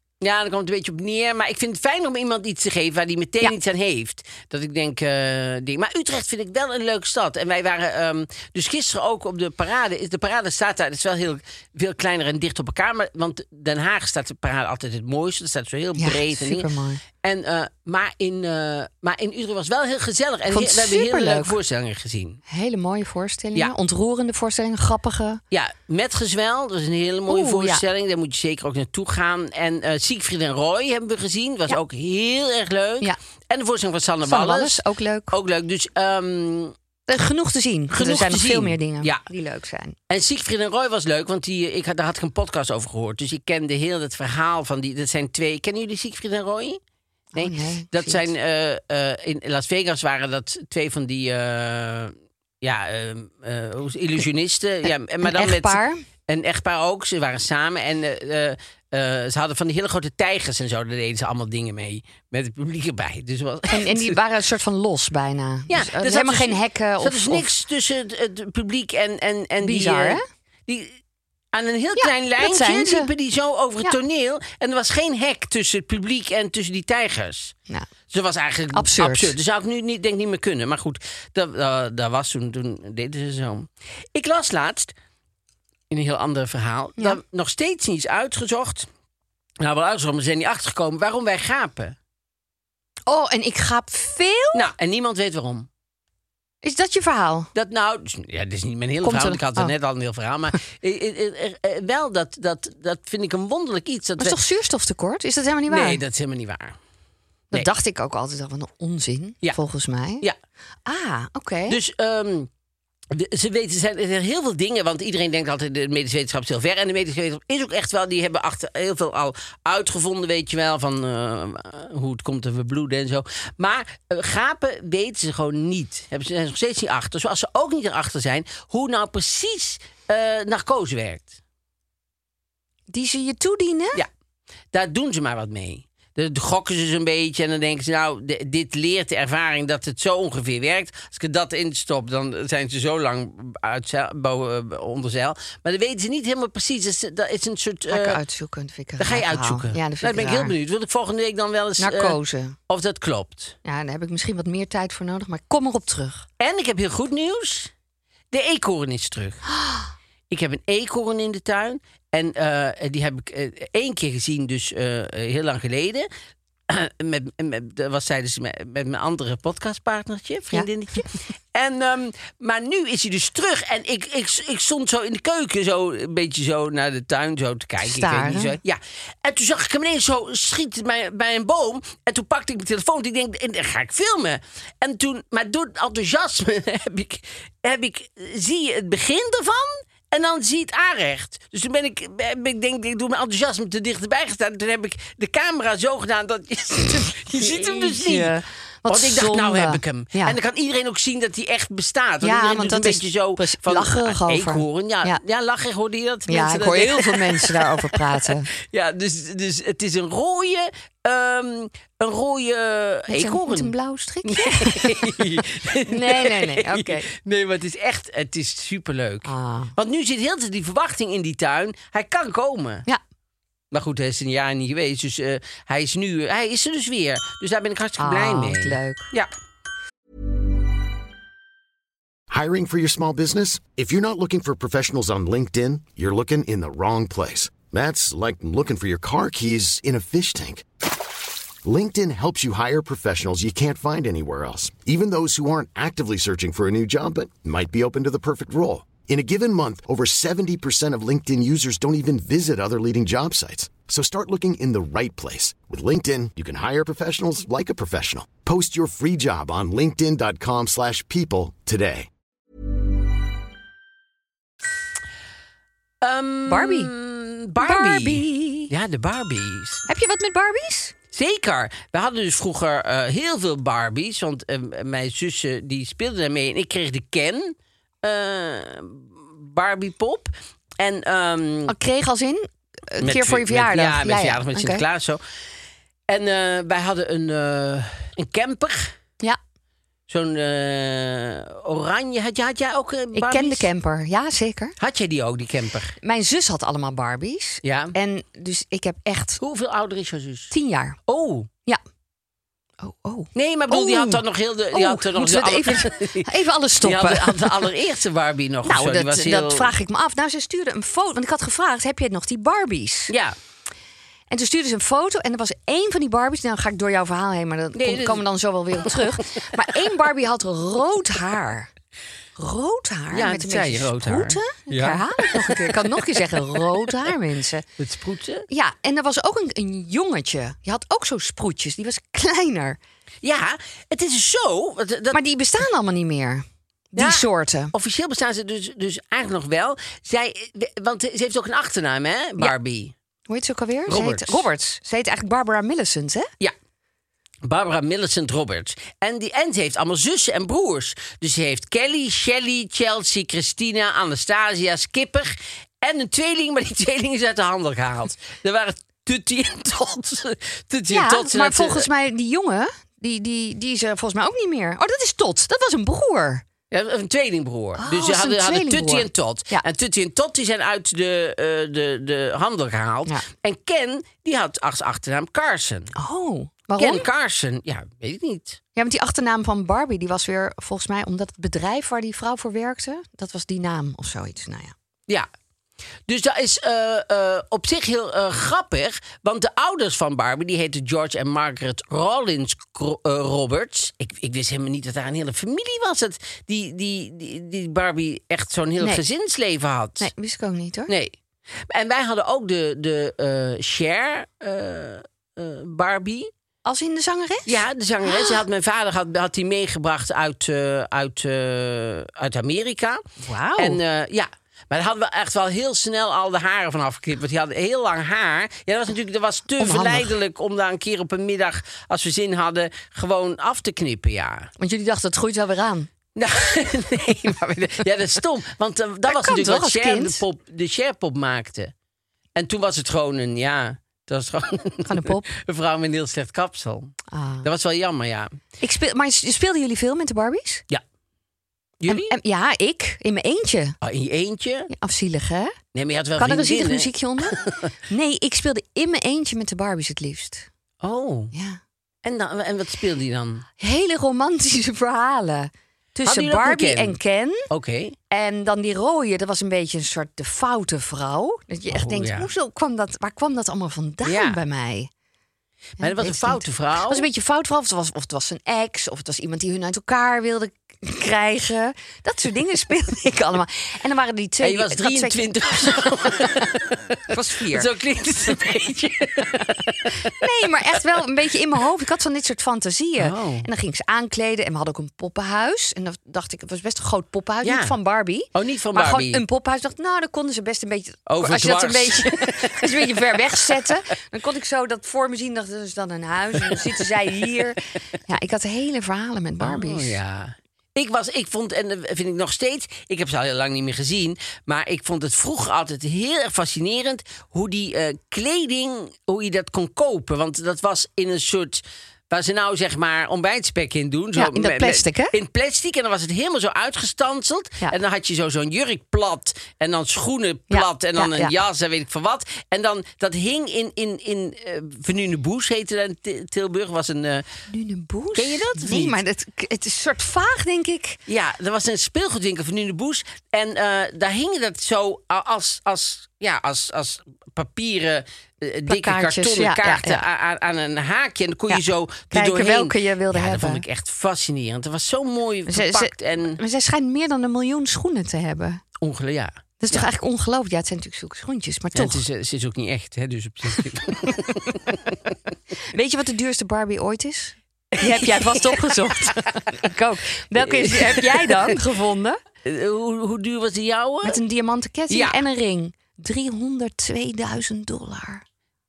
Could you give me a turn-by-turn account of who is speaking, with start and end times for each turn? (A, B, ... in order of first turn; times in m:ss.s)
0:00.2-0:16.7 A
0:16.0-0:17.0 B
0:17.2-0:22.4 A
0:20.5-0:21.6 B
0:22.5-0:25.4 B
0:25.5-0:36.7 A
0:27.3-0:27.8 B
0:34.3-0:35.3 B
0:37.1-0:40.0 B
0:37.9-0:39.2 A
0:40.1-0:46.8 A
0:47.3-0:48.2 B
0:47.4-1:04.2 A
0:55.2-0:56.0 B
1:03.7-1:07.5 B
1:05.7-1:11.0 A
1:09.6-1:10.2 B
1:11.5-1:17.5 A
1:12.0-1:13.1 B
1:18.1-1:24.9 A
1:18.7-1:19.3 B
1:25.9-1:28.9 A
1:29.6-1:32.0 A
1:33.1-1:34.7 B
1:34.5-1:35.7 A
1:36.6-1:37.5 B
1:37.5-1:44.4 A
1:39.0-1:39.7 B
1:44.2-1:46.0 B
1:45.7-1:46.8 A
1:47.5-1:50.2 B
1:50.8-1:51.8 B
1:51.7-1:52.5 A
1:53.1-2:11.4 A
2:12.9-2:14.0 B
2:14.7-2:28.2 A
2:27.9-2:30.5 B
2:29.0-2:32.2 A
2:31.8-2:32.5 B
2:32.7-2:33.6 A
2:33.6-2:36.2 B
2:36.4-2:37.7 A
2:38.3-2:39.4 A
2:40.3-2:46.1 A
2:46.7-3:18.4 A
2:57.8-2:58.6 B
3:17.0-3:20.4 B
3:18.9-3:33.7 A
3:22.2-3:25.2 B
3:26.3-3:28.5 B
3:33.1-3:37.1 B
3:34.2-3:42.8 A
3:39.2-3:39.7 B
3:43.7-3:49.3 A
3:48.0-3:49.1 B
3:52.3-4:00.6 C
4:01.6-4:22.1 C
4:26.0-4:29.8 A
4:26.5-4:26.9 B
4:27.6-4:28.7 B
4:29.9-4:30.9 B
4:31.1-4:41.7 A
4:41.7-4:44.8 B
4:43.0-4:45.2 A
4:46.1-4:48.9 A
4:50.1-4:53.7 A
4:53.1-4:54.7 B
4:54.8-4:56.0 A
4:56.0-4:59.4 B
4:57.6-4:57.9 A
4:59.4-5:00.5 A
5:00.5-5:01.0 B
5:01.1-5:01.5 A
5:02.8-5:04.2 B
5:03.3-5:09.7 A
5:04.7-5:07.7 B
5:08.6-5:13.1 B
5:13.1-5:13.3 A
5:14.3-5:21.7 B
5:17.7-5:18.2 A
5:18.8-5:19.1 A
5:22.4-5:27.6 B
5:23.1-5:26.4 A
5:27.8-5:28.5 A
5:28.5-5:32.8 B
5:33.2-5:35.2 A
5:35.1-5:37.7 B
5:37.0-5:42.9 A
5:43.3-5:46.3 B
5:43.9-5:44.4 A
5:47.4-6:01.9 A
6:00.9-6:06.4 B
6:06.7-6:15.9 A
6:07.8-6:09.6 B
6:16.0-6:17.0 B
6:16.8-6:18.6 A
6:18.8-6:24.7 B
6:26.1-6:40.1 A
6:40.0-6:40.9 B
6:40.9-6:41.1 A
6:41.7-6:46.3 A
6:46.6-6:48.4 B
6:47.4-6:53.0 A
6:53.2-6:53.8 B
6:53.6-7:04.5 A
6:59.6-7:00.1 B
7:04.6-7:05.9 B
7:06.2-7:11.7 A
7:09.1-7:10.2 B
7:12.4-7:18.4 A
7:14.8-7:15.3 B
7:17.1-7:17.5 B
7:18.6-7:20.6 B
7:21.8-7:22.1 A
7:21.9-7:23.8 B
7:23.8-7:24.7 A
7:24.7-7:25.6 B
7:25.7-7:27.7 A
7:26.2-7:30.5 B
7:30.8-7:31.3 A
7:31.3-7:31.6 B
7:32.0-7:33.5 A
7:33.6-7:37.5 B
7:36.0-7:37.0 A
7:37.5-7:38.0 A
7:38.1-7:44.9 B
7:41.7-7:42.3 A
7:44.0-7:44.4 A
7:45.8-7:47.0 A
7:45.8-7:55.3 B
7:54.4-8:00.2 A
7:57.1-7:57.7 B
8:00.1-8:20.0 B
8:03.0-8:03.5 A
8:07.4-8:07.8 A
8:08.3-8:09.2 A
8:11.1-8:13.6 A
8:19.4-8:47.2 A
8:34.2-8:35.1 B
8:40.5-8:41.4 B
8:47.5-8:51.0 B
8:48.1-8:49.0 A
8:51.1-9:06.4 A
8:58.7-9:00.0 B
9:01.5-9:03.6 B
9:05.5-9:08.6 B
9:08.8-9:09.9 A
9:09.6-9:12.0 B
9:11.7-9:15.0 A
9:15.7-9:22.2 B
9:17.7-9:19.3 A
9:20.4-9:21.6 A
9:22.4-9:24.2 A
9:24.0-9:28.2 B
9:24.9-9:25.2 A